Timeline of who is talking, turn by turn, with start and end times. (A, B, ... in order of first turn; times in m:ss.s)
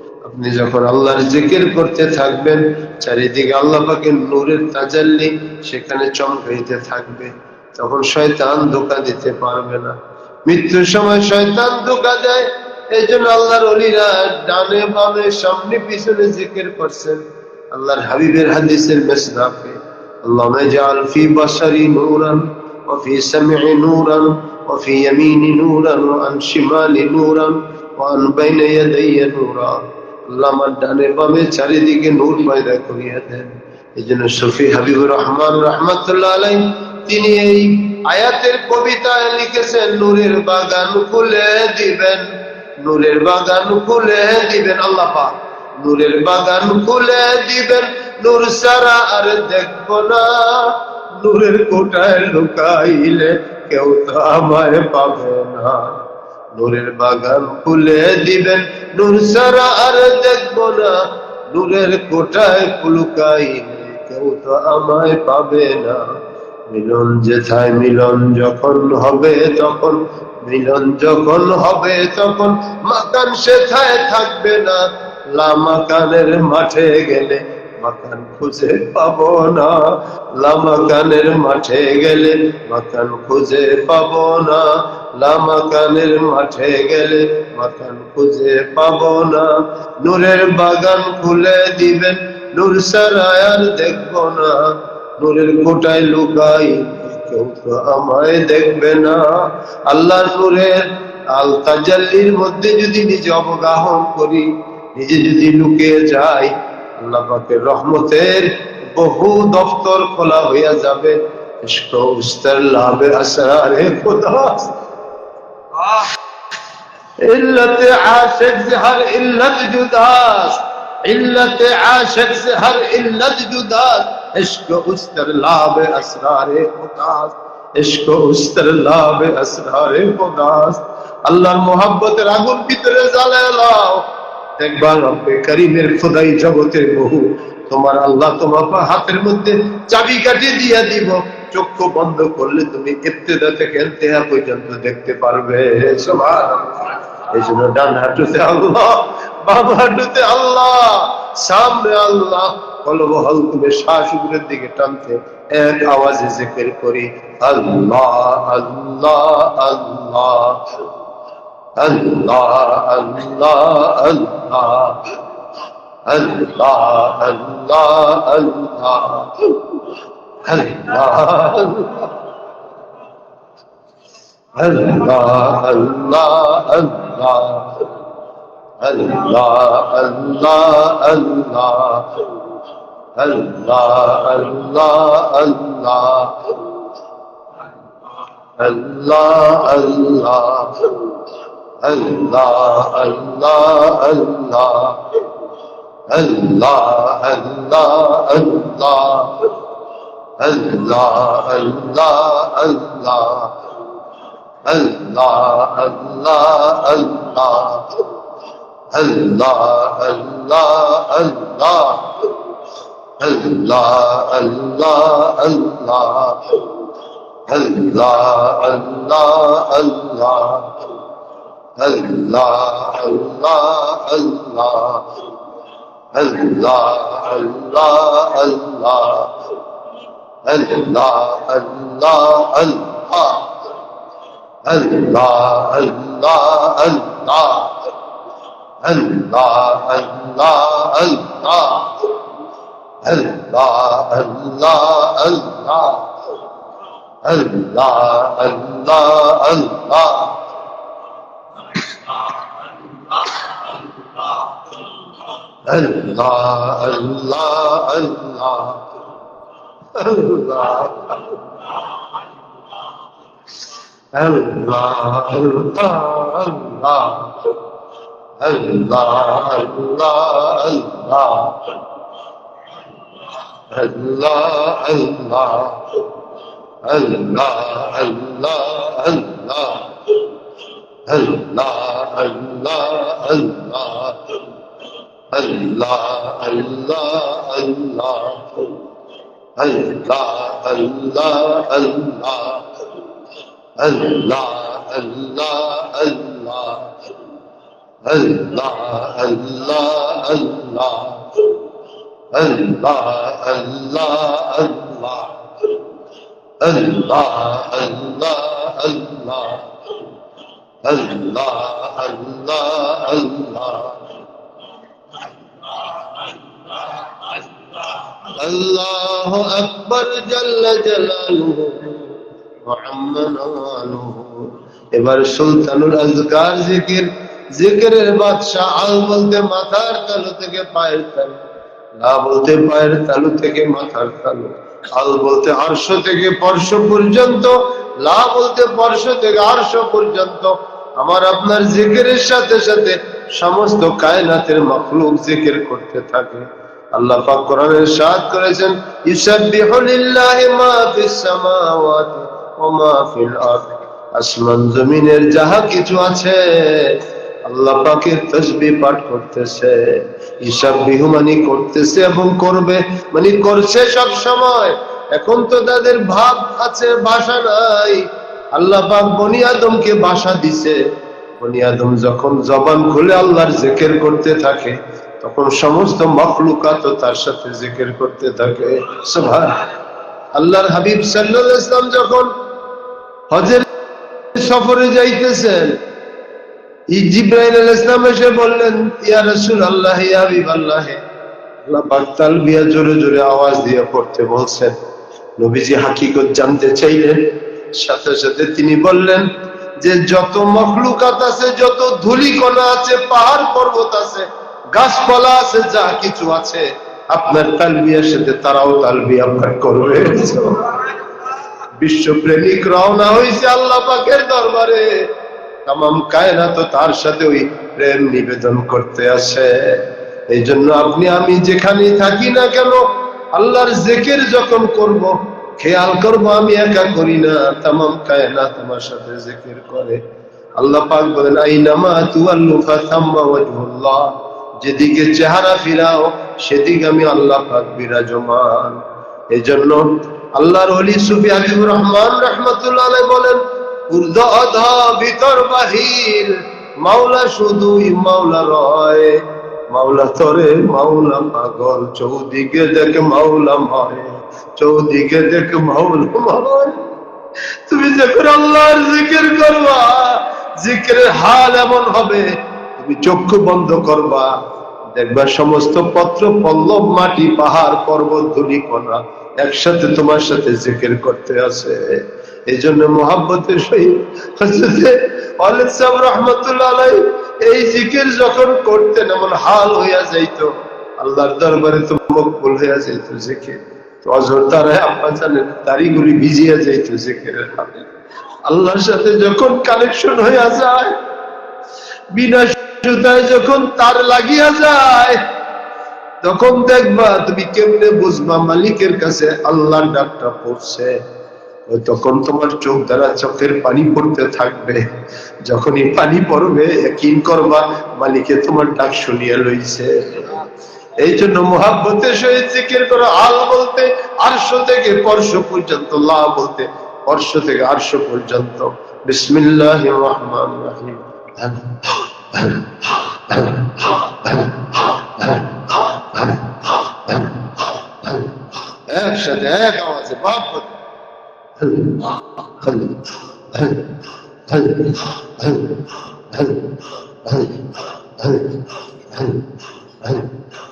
0:00.2-0:42.2 A
0:42.8-0:55.9 A
0:56.5-1:06.0 A
1:06.7-1:54.7 A
1:55.8-1:56.1 A
1:57.2-2:40.6 A
2:41.8-2:45.0 A
2:46.0-2:49.9 A
2:50.4-2:52.2 A
2:54.6-2:57.8 A
2:58.8-3:02.2 A
3:03.2-3:06.6 A
3:08.6-3:11.0 A
3:11.8-3:15.0 A
3:16.1-3:19.5 A
3:20.4-3:23.5 A
3:24.6-3:27.9 A
3:28.9-3:32.3 A
3:33.2-3:36.6 A
3:37.5-3:40.7 A
3:41.8-3:45.0 A
3:46.1-3:49.3 A
3:50.4-3:53.5 A
3:54.6-3:57.8 A
3:58.8-4:02.0 A
4:03.0-4:06.1 A
4:07.2-4:10.4 A
4:11.7-4:14.4 A
4:15.6-4:18.8 A
4:19.9-4:21.8 A
4:24.1-4:27.5 A
4:28.4-4:31.6 A
4:33.7-4:35.8 A
4:36.8-4:40.2 A
4:41.1-4:44.2 A
4:45.3-4:48.7 A
4:49.6-4:52.6 A
4:53.8-4:56.9 A
4:58.0-5:01.5 A
5:02.3-5:05.4 A
5:06.6-5:09.7 A
5:10.8-5:14.0 A
5:15.7-5:31.4 A
5:32.0-6:10.8 A
6:11.4-6:19.7 A
6:20.3-6:22.3 A
6:23.3-6:23.7 A
6:24.3-6:25.8 A
6:26.9-6:31.0 A
6:31.6-6:34.8 A
6:35.4-6:39.3 A
6:39.8-6:50.9 A
6:51.8-6:55.1 A
6:55.6-7:10.0 A
7:10.6-7:36.8 A
7:37.7-7:44.4 A
7:44.9-8:07.8 A
8:08.4-8:10.9 A
8:12.1-8:15.2 A
8:16.2-8:21.0 A
8:21.7-8:24.9 A
8:25.4-8:30.4 A
8:31.0-8:48.3 A
8:48.9-8:50.7 A
8:51.6-8:53.9 A
8:54.5-8:59.4 A
9:00.0-9:00.3 A